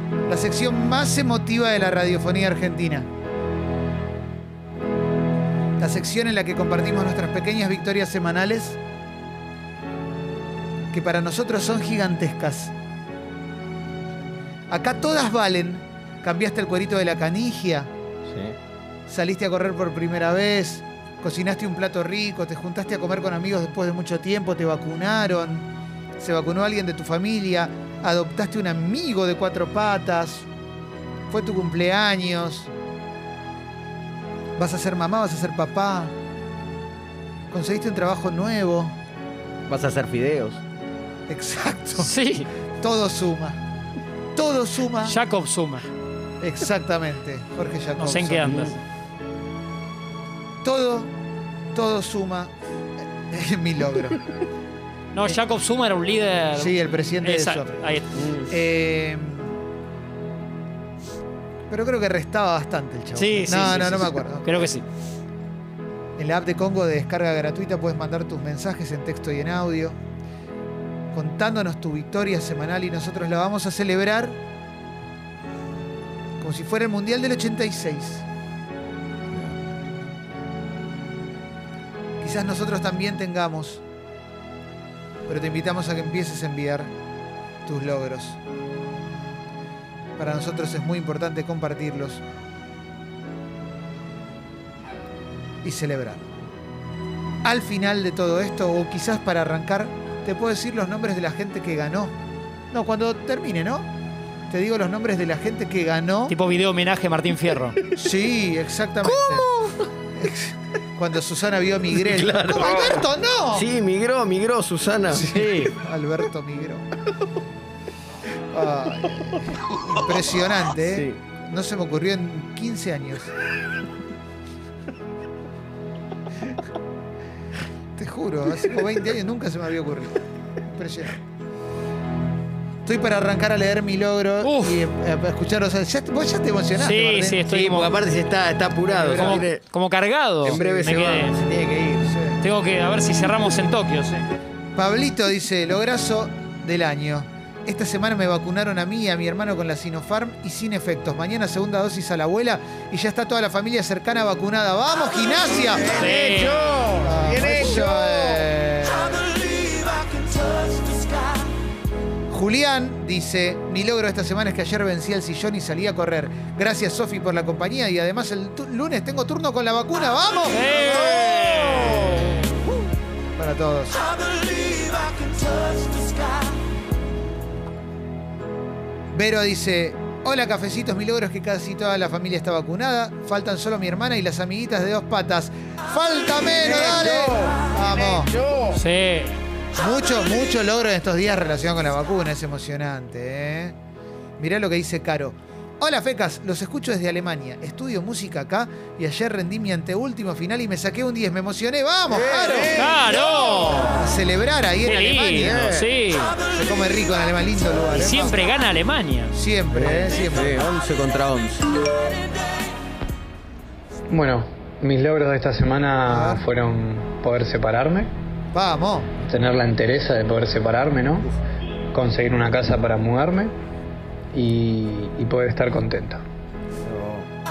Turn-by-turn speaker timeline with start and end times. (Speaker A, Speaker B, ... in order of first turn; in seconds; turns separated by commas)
Speaker A: 0.3-3.1, Speaker A: 5.8-8.8, Speaker A: 10.9-12.7, Speaker A: 14.7-17.9, Speaker B: 18.3-18.6, Speaker A: 19.1-25.6, Speaker A: 26.2-30.5, Speaker A: 31.3-32.7, Speaker A: 34.6-36.1, Speaker A: 37.5-38.9, Speaker B: 39.7-40.6, Speaker A: 41.3-42.1, Speaker C: 42.0-42.5, Speaker A: 42.8-43.6, Speaker A: 44.3-45.2, Speaker C: 45.0-45.9, Speaker A: 46.4-48.5, Speaker C: 48.0-48.8, Speaker A: 50.6-51.1, Speaker A: 51.7-52.5, Speaker A: 53.3-54.2, Speaker C: 55.1-58.1, Speaker A: 56.5-57.8, Speaker B: 58.2-58.5, Speaker A: 58.5-59.6, Speaker A: 61.7-64.7, Speaker C: 63.1-64.8, Speaker A: 66.2-70.0, Speaker A: 71.1-74.4, Speaker A: 76.4-78.2, Speaker A: 82.2-83.8, Speaker A: 85.3-86.9, Speaker A: 87.6-88.4, Speaker A: 90.2-92.2, Speaker A: 95.6-96.2, Speaker A: 97.4-102.1, Speaker A: 102.7-103.9, Speaker A: 104.5-106.3, Speaker C: 106.3-107.8, Speaker A: 107.9-109.5, Speaker B: 109.0-109.8, Speaker A: 110.2-113.7, Speaker B: 111.9-115.2, Speaker A: 115.1-116.8, Speaker C: 115.3-115.7, Speaker A: 118.5-123.3, Speaker B: 120.8-121.2, Speaker A: 128.0-131.2, Speaker A: 132.8-137.4, Speaker C: 134.4-134.8, Speaker C: 136.8-138.0, Speaker B: 137.5-139.6, Speaker A: 138.9-139.5, Speaker C: 139.1-141.4, Speaker B: 140.4-142.1, Speaker A: 140.4-140.9, Speaker A: 142.0-142.4, Speaker C: 142.4-144.2, Speaker A: 144.8-155.9, Speaker B: 155.7-158.4, Speaker C: 155.9-156.9, Speaker A: 157.0-159.2, Speaker A: 162.3-170.7, Speaker C: 170.5-172.4, Speaker B: 171.1-171.9, Speaker A: 173.3-174.0, Speaker A: 179.1-188.3, Speaker B: 186.6-188.8, Speaker C: 188.7-189.4, Speaker A: 189.8-193.8, Speaker A: 194.4-202.9, Speaker B: 202.1-203.2, Speaker C: 202.7-204.0, Speaker A: 203.9-205.8, Speaker C: 204.8-206.3, Speaker B: 205.4-205.8, Speaker A: 206.5-208.4, Speaker C: 207.9-209.3, Speaker A: 209.3-210.6, Speaker B: 209.7-211.7, Speaker D: 214.1-218.1, Speaker A: 216.1-216.4, Speaker A: 218.5-219.1, Speaker D: 219.3-221.3, Speaker D: 221.9-223.5, Speaker D: 224.3-226.2, Speaker B: 226.8-227.3